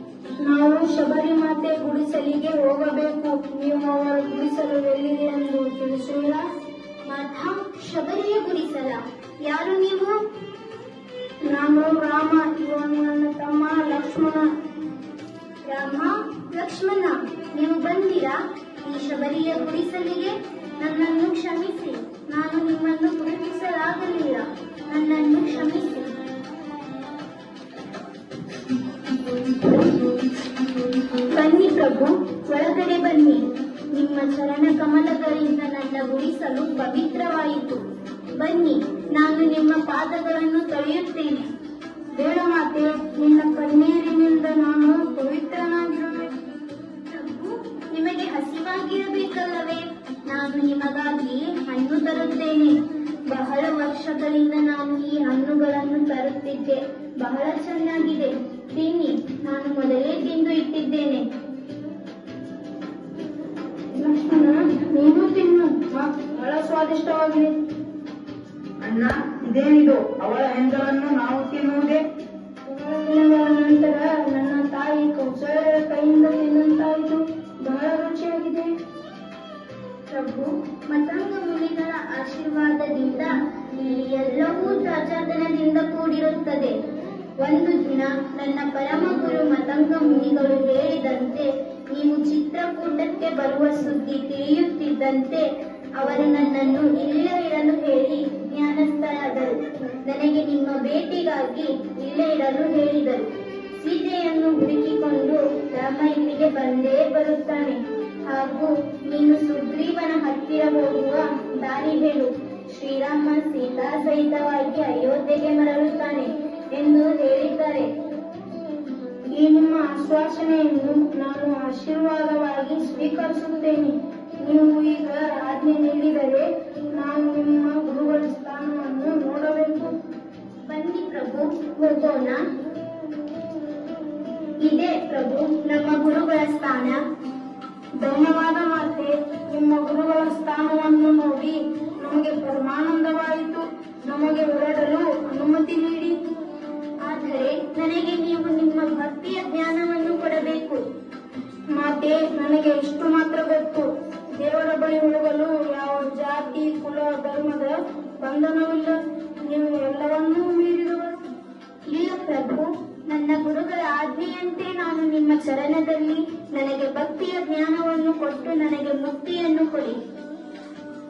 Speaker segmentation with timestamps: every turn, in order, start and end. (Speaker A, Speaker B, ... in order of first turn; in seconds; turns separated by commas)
Speaker A: 0.4-6.4, Speaker B: 7.1-10.1, Speaker A: 11.5-14.5, Speaker B: 15.7-26.2, Speaker B: 31.2-37.8, Speaker B: 38.4-41.5, Speaker A: 42.1-46.3, Speaker B: 47.1-52.8, Speaker B: 53.3-61.2, Speaker A: 64.0-67.6, Speaker C: 68.8-72.0, Speaker A: 72.7-78.7, Speaker B: 80.1-86.7, Speaker B: 87.4-117.9, Speaker A: 119.3-129.9, Speaker B: 130.7-132.4, Speaker B: 134.6-137.0, Speaker A: 138.0-146.2, Speaker B: 147.0-150.8, Speaker A: 151.7-161.2, Speaker B: 161.9-170.0